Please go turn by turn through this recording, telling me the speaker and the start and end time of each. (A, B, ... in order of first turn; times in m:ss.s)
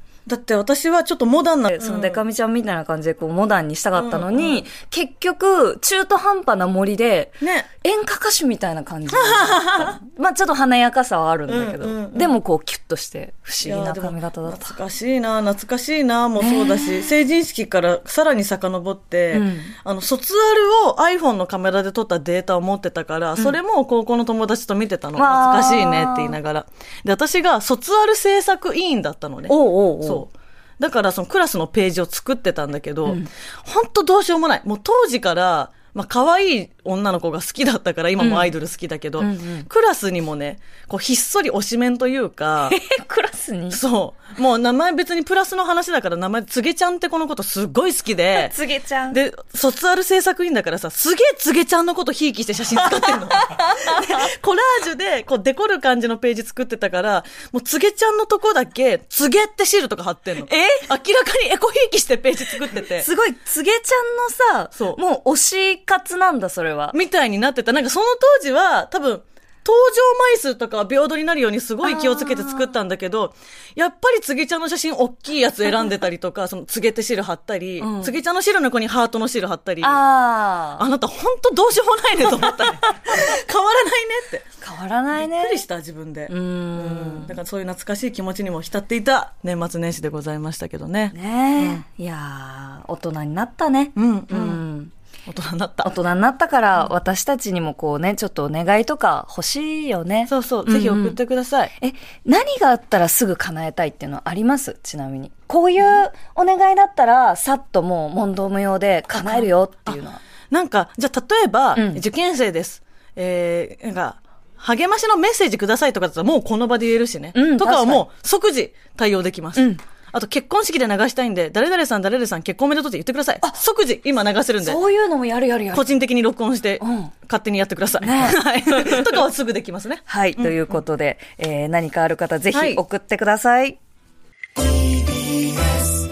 0:00.3-0:02.2 A
0:01.7-0:14.8 B
0:04.0-0:04.6 A
0:07.4-0:07.7 A
0:09.1-0:10.0 A
0:11.5-0:12.3 A
0:13.6-0:42.8 A
0:16.4-0:17.1 B
0:19.3-0:19.7 B
0:25.2-0:26.4 B
0:29.5-0:30.2 B
0:38.2-0:38.5 B
0:39.2-0:39.7 B
0:42.7-0:43.8 B
0:43.7-0:48.5 A
0:48.4-0:49.2 B
0:49.1-1:03.1 A
0:53.4-0:54.1 B
1:00.4-1:00.9 B
1:02.9-1:07.0 B
1:06.9-1:20.0 A
1:11.8-1:12.7 B
1:17.8-1:18.2 B
1:19.8-1:20.8 B
1:20.8-1:24.5 A
1:24.6-1:25.6 B
1:25.1-1:31.8 A
1:26.3-1:27.3 B
1:31.1-1:34.9 B
1:34.0-1:34.6 A
1:35.3-1:35.9 A
1:35.8-1:41.2 B
1:40.3-1:41.7 A
1:41.8-1:50.2 B
1:49.1-1:50.0 A
1:50.5-2:04.8 A
1:51.7-1:52.0 B
1:57.3-1:58.0 B
1:59.6-1:59.8 B
2:04.6-2:05.9 B
2:05.7-2:10.8 A
2:06.8-2:07.1 B
2:08.0-2:09.1 B
2:10.1-2:13.8 B
2:12.5-2:12.8 A